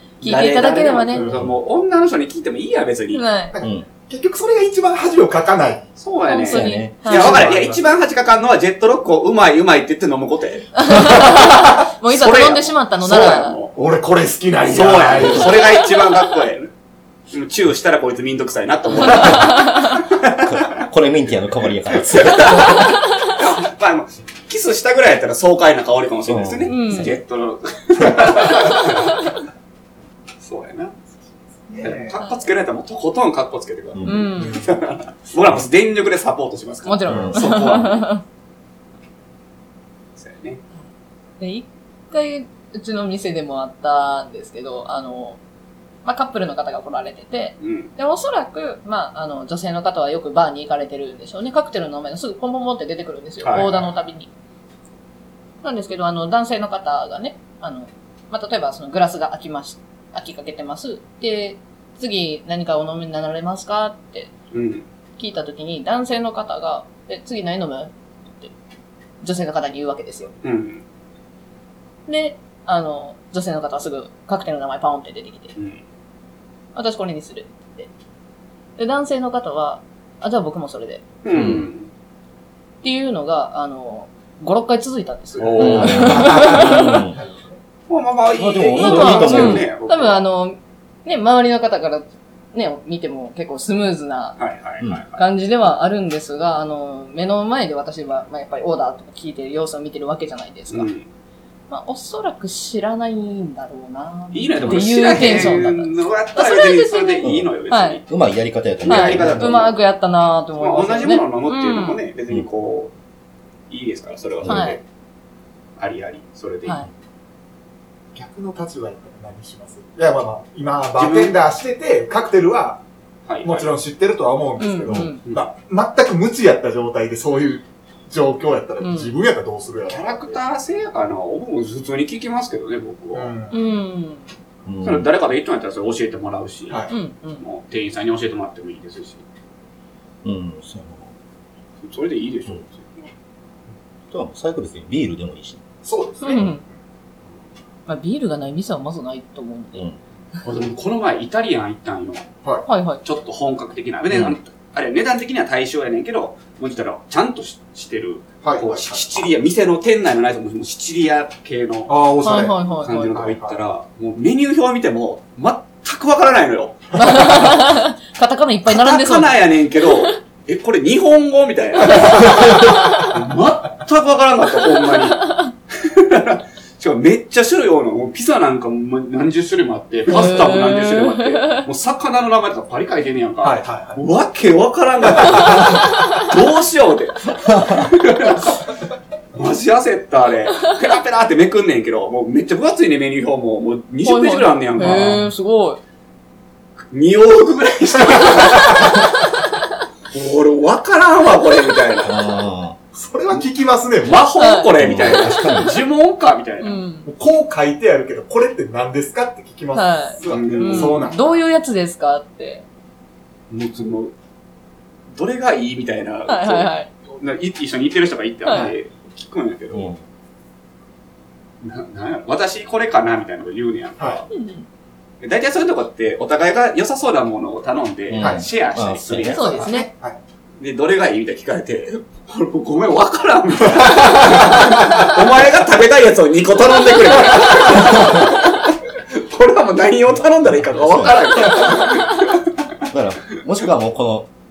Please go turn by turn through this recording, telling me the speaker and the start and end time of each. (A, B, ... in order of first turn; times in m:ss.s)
0:00.2-0:03.2 A
0:00.2-0:01.3 B
0:01.3-0:01.5 C
0:03.1-0:03.6 B
0:03.5-0:05.9 D
0:06.0-0:13.8 A
0:06.2-0:07.4 B
0:06.4-0:07.0 C
0:07.0-0:07.9 D
0:10.8-0:13.6 B
0:13.7-0:15.7 D
0:14.6-0:16.7 A
0:17.3-0:20.8 A
0:19.0-0:20.0 B
0:20.5-0:23.0 C
0:21.9-0:29.3 A
0:26.3-0:27.1 C
0:26.7-0:27.1 B
0:30.4-0:30.9 A
0:31.7-0:32.2 D
0:31.8-0:38.1 A
0:34.0-0:34.3 C
0:34.0-0:34.7 B
0:34.4-0:34.8 D
0:36.8-0:38.2 B
0:37.1-0:37.4 C
0:40.2-0:40.6 A
0:41.4-0:45.4 B
0:46.0-0:54.3 B
0:47.6-0:47.9 A
0:53.4-0:53.9 A
0:55.6-1:04.3 B
1:04.5-1:04.9 A
1:05.2-1:08.5 B
1:09.2-1:10.4 B
1:10.4-1:10.8 A
1:12.1-1:15.5 B
1:16.8-1:17.9 B
1:18.8-1:21.0 B
1:21.2-1:21.9 A
1:21.3-1:21.7 C
1:22.8-1:27.0 B
1:25.4-1:26.5 A
1:25.4-1:27.6 D
1:25.6-1:27.2 C
1:27.9-1:30.2 A
1:28.4-1:29.7 C
1:28.7-1:34.4 B
1:34.4-1:35.2 A
1:35.2-1:40.9 B
1:40.7-1:41.1 A
1:41.7-1:48.0 B
1:44.3-1:48.0 A
1:47.2-1:47.5 C
1:48.1-1:49.6 C
1:48.8-1:49.8 A
1:48.8-1:52.0 B
1:50.6-1:52.9 A
1:53.7-1:54.8 A
1:54.4-1:54.7 C
1:54.5-1:54.8 B
1:55.8-1:56.8 A
1:58.2-2:02.8 D
2:01.0-2:01.4 A
2:03.3-2:03.8 A
2:03.4-2:10.4 D
2:04.6-2:05.2 B
2:08.8-2:09.1 B
2:09.9-2:13.3 A
2:13.1-2:13.6 D
2:13.5-2:14.2 B
2:14.7-2:15.1 C
2:14.8-2:16.9 A
2:16.7-2:16.9 D
2:16.9-2:17.4 B
2:17.4-2:19.2 A
2:20.2-2:21.1 C
2:21.8-2:23.1 A
2:24.1-2:25.6 C
2:25.8-2:26.6 D
2:26.2-2:26.6 B
2:27.9-2:29.9 B
2:30.4-2:32.3 A
2:32.7-2:33.0 B
2:33.0-2:42.0 A
2:34.1-2:34.4 C
2:38.4-2:39.1 D
2:41.9-2:43.6 D
2:42.2-2:43.2 B
2:42.8-2:47.6 A
2:47.0-2:50.2 B
2:48.7-3:08.7 A
2:51.9-2:53.1 B
2:52.2-2:52.7 D
2:55.2-2:55.5 B
3:00.1-3:01.6 B
3:03.4-3:04.0 D
3:05.1-3:05.8 D
3:07.5-3:07.9 C
3:09.4-3:15.2 A
3:14.0-3:15.8 B
3:16.9-3:19.3 A
3:18.1-3:19.0 D
3:20.1-3:22.2 A
3:22.0-3:22.8 C
3:22.9-3:24.3 D
3:24.0-3:26.8 A
3:24.4-3:25.6 B
3:24.8-3:25.8 C
3:26.6-3:27.1 B
3:27.1-3:31.4 D
3:29.7-3:32.6 B
3:30.3-3:31.2 A
3:33.5-3:34.1 A
3:35.2-3:39.9 A
3:36.3-3:36.9 B
3:38.4-3:38.7 B
3:39.7-3:40.0 C
3:41.6-3:44.3 A
3:44.3-3:44.6 B
3:45.2-3:49.8 A
3:48.1-3:49.7 C
3:48.2-3:48.5 D
3:49.2-3:49.9 B
3:49.7-3:50.2 D
3:50.6-4:02.5 A
3:53.7-3:55.1 D
3:57.8-3:58.3 C
4:00.6-4:01.3 C
4:02.9-4:04.3 C